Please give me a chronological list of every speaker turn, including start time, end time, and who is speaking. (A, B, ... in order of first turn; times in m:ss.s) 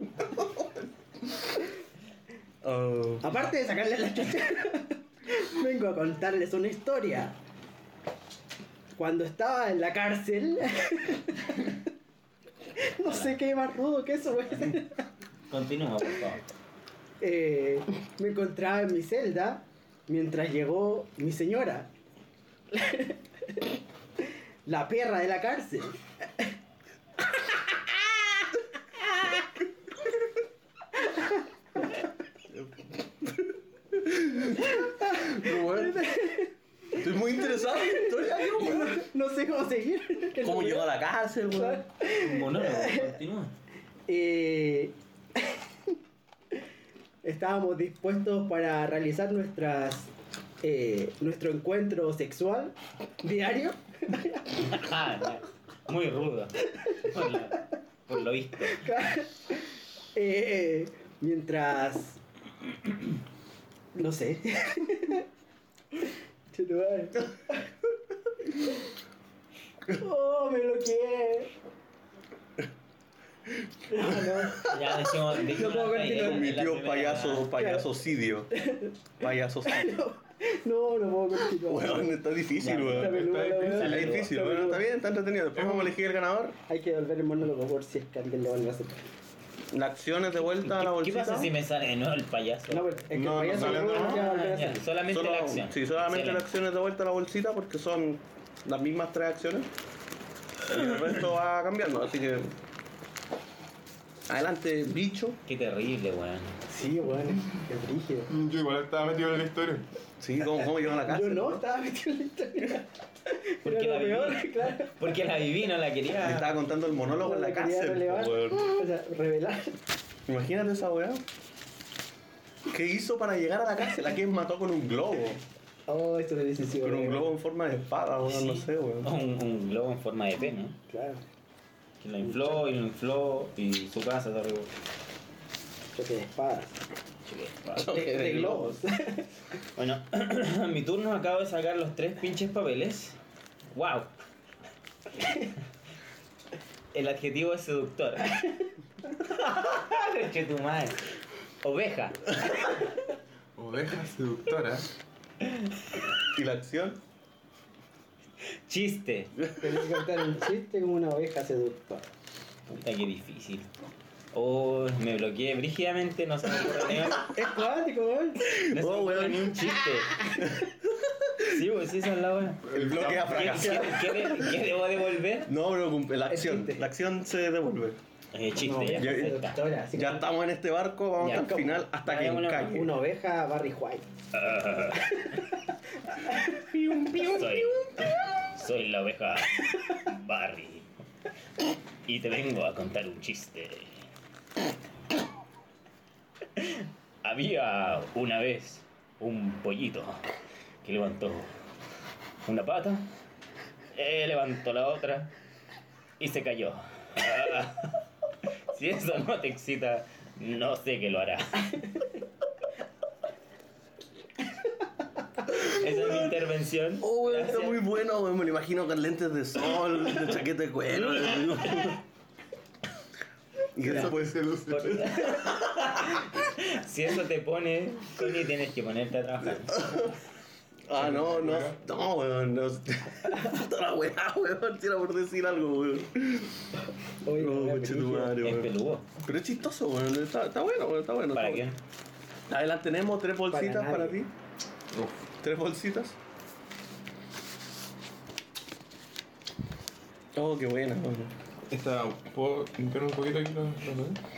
0:02.6-0:03.3 A
0:03.2-0:07.4 B
0:09.0-0:11.8 B
0:12.8-0:15.0 B
0:15.5-0:16.4 C
0:17.2-0:21.9 B
0:22.7-0:23.7 B
0:24.7-0:26.0 B
0:27.4-0:28.0 B
0:31.0-0:31.4 B
0:32.5-0:36.1 A
0:34.6-0:36.5 B
0:36.9-0:39.0 A
0:37.5-0:41.0 B
0:40.4-0:41.8 A
0:41.6-0:43.2 B
0:42.0-0:43.5 C
0:44.1-0:45.6 B
0:47.2-0:54.6 B
0:54.6-0:58.9 C
0:58.7-0:59.6 B
1:00.2-1:02.2 B
1:04.0-1:05.3 B
1:06.0-1:07.7 B
1:08.6-1:08.8 B
1:09.9-1:11.5 B
1:13.5-1:14.4 A
1:13.9-1:14.8 B
1:14.6-1:17.5 C
1:15.5-1:18.5 A
1:17.6-1:17.9 B
1:18.5-1:18.9 B
1:19.2-1:20.0 A
1:19.7-1:22.1 B
1:21.6-1:26.6 A
1:22.6-1:24.3 C
1:23.0-1:24.8 B
1:23.0-1:24.2 D
1:25.6-1:25.9 D
1:26.7-1:29.1 B
1:29.7-1:31.5 A
1:30.6-1:33.0 C
1:32.7-1:34.8 B
1:33.1-1:34.3 D
1:33.6-1:36.4 C
1:35.1-1:39.7 A
1:40.6-1:42.5 A
1:44.3-1:45.4 A
1:45.5-1:46.6 C
1:46.7-1:48.3 B
1:48.3-1:49.9 D
1:50.2-1:51.6 A
1:51.0-1:55.0 B
1:53.6-1:56.6 C
1:56.2-1:58.8 A
1:57.2-1:59.8 B
2:00.3-2:01.2 A
2:02.7-2:05.4 A
2:05.9-2:07.3 B
2:06.8-2:09.1 A
2:08.3-2:10.8 C
2:10.9-2:11.2 B
2:12.0-2:14.7 C
2:12.2-2:12.6 B
2:15.9-2:16.8 B
2:17.3-2:18.0 C
2:17.7-2:18.8 A
2:17.8-2:19.3 B
2:19.8-2:23.2 C
2:23.7-2:24.1 C
2:26.9-2:28.4 C
2:29.2-2:31.0 C
2:31.6-2:32.4 C
2:33.6-2:34.9 D
2:36.3-2:37.0 A
2:38.7-2:39.3 C
2:39.6-2:42.1 B
2:42.7-2:43.7 C
2:44.3-2:47.3 C
2:47.2-2:48.5 B
2:48.4-2:49.7 A
2:48.6-2:50.4 C
2:50.4-2:50.7 A
2:51.4-2:55.5 C
2:52.7-2:53.8 D
2:52.7-2:54.6 A
2:55.5-2:58.0 A
2:56.3-2:56.9 B
2:58.3-2:59.6 C
2:58.6-3:00.3 B
2:58.9-2:59.4 A
2:59.9-3:03.0 A
3:01.2-3:02.9 C
3:02.7-3:04.1 B
3:04.3-3:05.4 C
3:06.2-3:06.4 B
3:06.6-3:07.9 A
3:07.1-3:10.9 C
3:12.1-3:14.0 C
3:16.6-3:20.2 C
3:20.8-3:21.5 C
3:22.4-3:23.1 C
3:23.9-3:25.3 C
3:26.2-3:28.0 C
3:28.7-3:32.0 C
3:35.5-3:37.8 C
3:37.0-3:42.0 A
3:41.0-3:42.0 C
3:43.8-3:44.4 A
3:43.8-3:45.4 D
3:43.8-3:44.1 C
3:44.7-3:49.9 C
3:49.7-3:50.2 A
3:50.9-3:56.7 A
3:51.0-3:51.8 D
3:57.2-3:58.4 B
3:57.4-4:01.7 A
3:58.4-3:59.1 C
4:01.3-4:01.8 C
4:02.5-4:04.3 A
4:03.5-4:04.2 B
4:04.9-4:05.2 D
4:05.4-4:06.2 A
4:10.4-4:11.4 A
4:11.7-4:14.2 D